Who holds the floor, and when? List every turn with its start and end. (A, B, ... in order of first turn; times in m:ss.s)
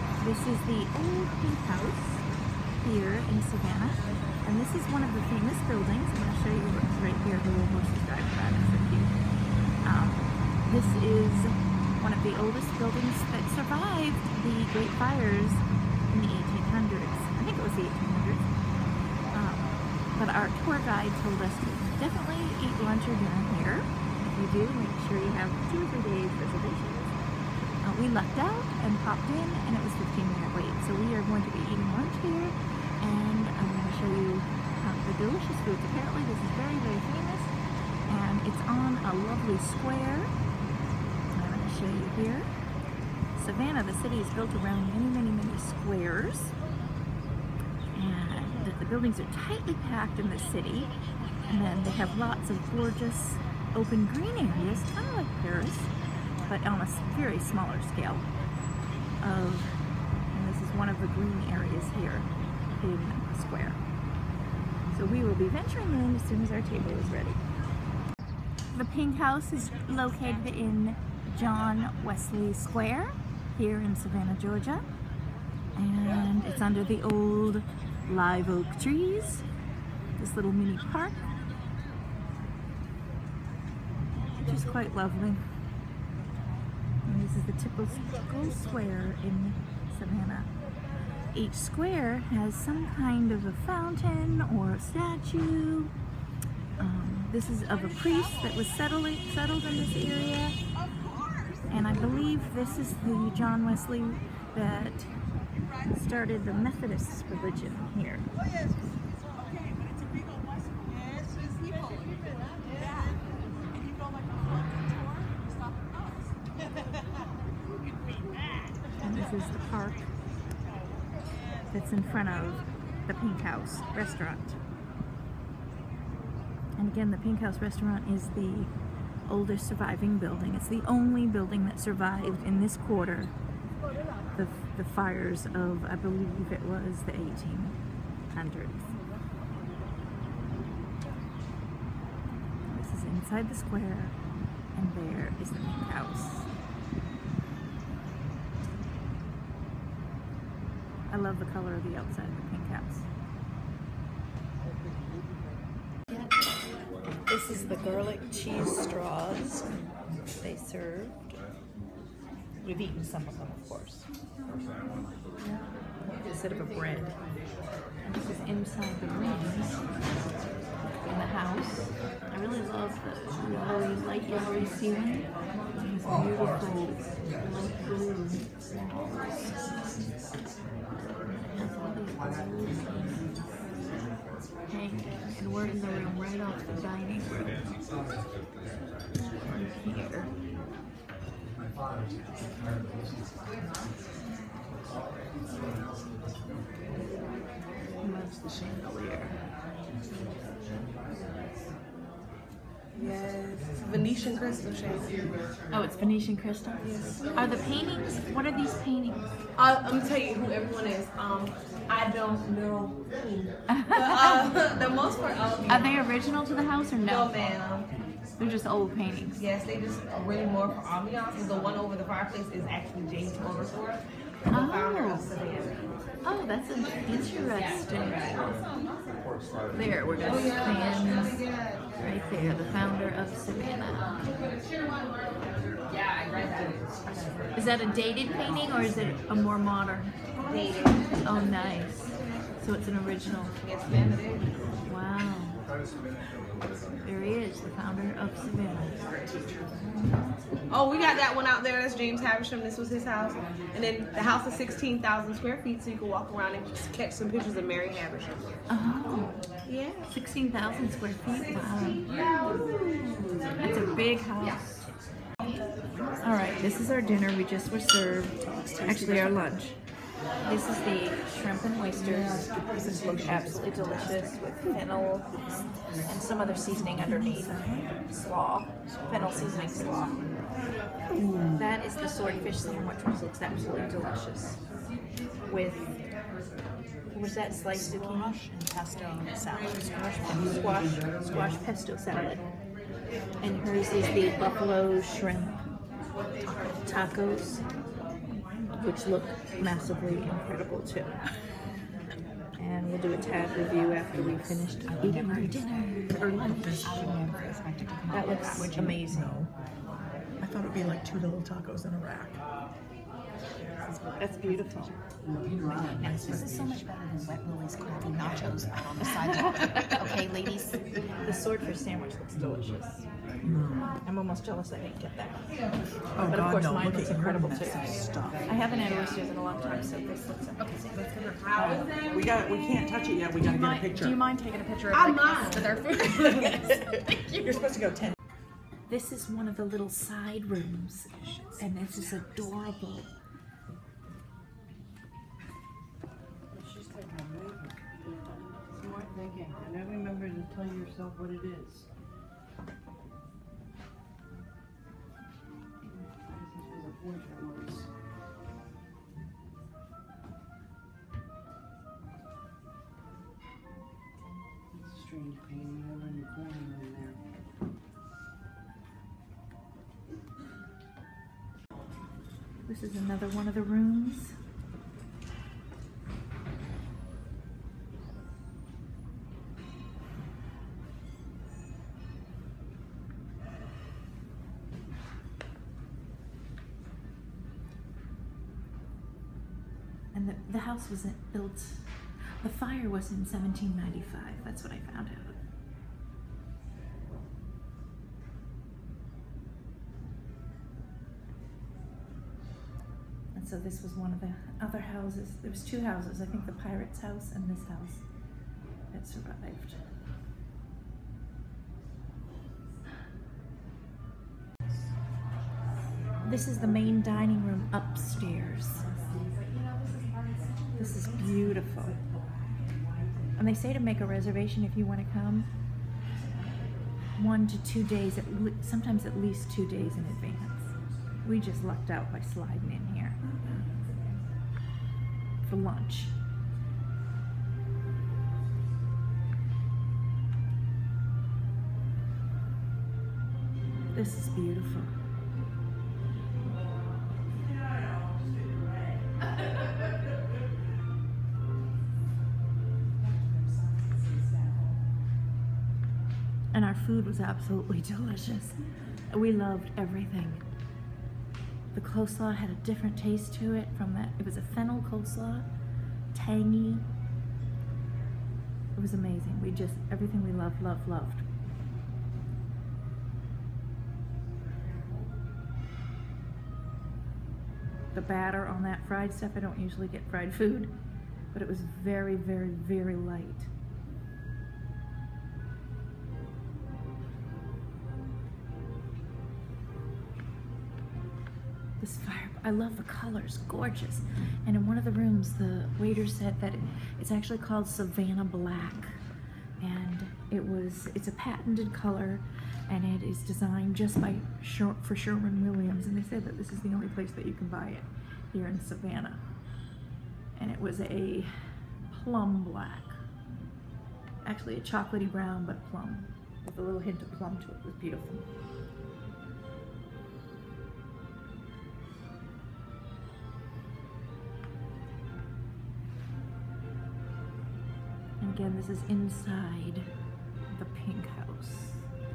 0:00.2-0:02.2 A
0:02.8-0:09.2 A
0:09.8-0:18.5 A
0:19.3-0:27.2 A
0:27.8-0:37.5 A
0:38.1-0:40.3 A
0:41.3-0:42.5 A
0:43.3-0:46.5 A
0:47.9-0:50.9 A
0:51.4-0:55.9 A
0:56.4-0:58.3 A
0:59.2-0:59.8 A
1:00.3-1:03.8 A
1:04.9-1:07.4 A
1:08.7-1:14.9 A
1:15.8-1:19.4 A
1:20.2-1:21.3 A
1:24.3-1:25.5 A
1:27.0-1:30.5 A
1:31.3-1:35.9 A
1:36.8-1:40.6 A
1:41.7-1:45.1 A
1:45.8-1:48.3 A
1:59.0-2:00.1 A
2:01.7-2:04.6 A
2:06.8-2:08.7 A
2:09.2-2:13.3 A
2:14.3-2:17.8 A
2:18.3-2:18.9 A
2:22.7-2:24.2 A
2:24.7-2:26.5 A
2:31.1-2:33.1 A
2:36.1-2:36.4 A
2:37.2-2:41.3 A
2:42.6-2:44.1 A
2:45.4-2:47.2 A
2:48.0-2:50.2 A
2:51.0-2:58.5 A
3:01.5-3:03.3 A
3:04.7-3:07.7 A
3:09.3-3:10.3 A
3:18.0-3:19.4 A
3:22.9-3:25.2 B
3:25.7-3:29.3 A
3:29.6-3:36.0 B
3:33.7-3:34.5 A
3:35.7-3:37.3 A
3:37.0-3:37.9 B
3:38.4-3:39.4 A
3:39.4-3:45.9 B
3:44.5-3:45.3 A
3:46.2-3:48.5 A
3:49.7-3:51.4 A
3:52.0-3:54.4 A
3:55.9-3:56.9 B
3:57.5-4:00.2 A
4:00.4-4:01.2 B
4:01.2-4:03.5 A
4:03.6-4:04.8 B
4:04.8-4:05.7 A
4:07.0-4:10.5 A
4:10.7-4:18.6 B
4:18.7-4:22.1 A
4:19.7-4:20.0 B
4:22.4-4:22.7 B
4:23.6-4:24.9 A
4:26.2-4:29.8 A
4:28.6-4:29.4 C
4:30.4-4:40.2 A
4:32.6-4:34.3 C
4:37.3-4:37.8 C
4:41.1-4:41.6 C
4:41.4-4:44.6 A
4:45.5-4:46.0 A
4:47.1-4:48.4 A
4:48.3-4:49.9 D
4:49.0-4:50.3 C
4:50.2-4:52.4 A
4:53.4-4:55.6 A
4:56.8-4:57.6 A
4:58.7-5:01.2 A
5:02.6-5:06.8 A
5:04.9-5:09.0 D
5:06.2-5:07.2 C
5:08.1-5:09.4 A
5:08.9-5:09.5 C
5:10.4-5:12.4 C
5:13.8-5:14.6 D
5:14.2-5:15.0 A
5:15.2-5:15.9 E
5:15.8-5:16.6 C
5:15.9-5:20.7 D
5:19.0-5:23.1 A
5:23.4-5:24.0 C
5:24.0-5:25.4 A
5:26.1-5:28.5 C
5:26.2-5:31.1 A
5:31.0-5:32.2 B
5:31.6-5:34.2 C
5:33.4-5:37.2 D
5:34.9-5:36.6 B
5:37.3-5:38.1 C
5:38.9-5:43.1 A
5:46.5-5:51.9 E
5:56.2-5:57.9 E
6:04.7-6:07.2 E
6:12.6-6:14.4 A
6:30.1-6:35.4 A
6:43.3-6:48.0 A
6:48.9-6:49.9 A
6:56.2-6:58.9 A
6:59.1-7:00.5 D
7:00.7-7:02.0 A
7:03.4-7:05.5 A
7:07.1-7:13.5 A
7:15.4-7:16.1 A
7:23.9-7:25.0 A
7:36.5-7:40.4 A
7:41.7-7:45.5 A
7:46.1-7:46.9 A
7:48.7-7:51.3 A
7:57.9-8:00.8 A
8:01.3-8:03.5 A
8:11.8-8:19.0 A
8:19.6-8:29.2 A
8:30.4-8:33.0 A
8:34.2-8:38.3 A
8:48.2-8:49.9 A
8:50.5-8:51.9 A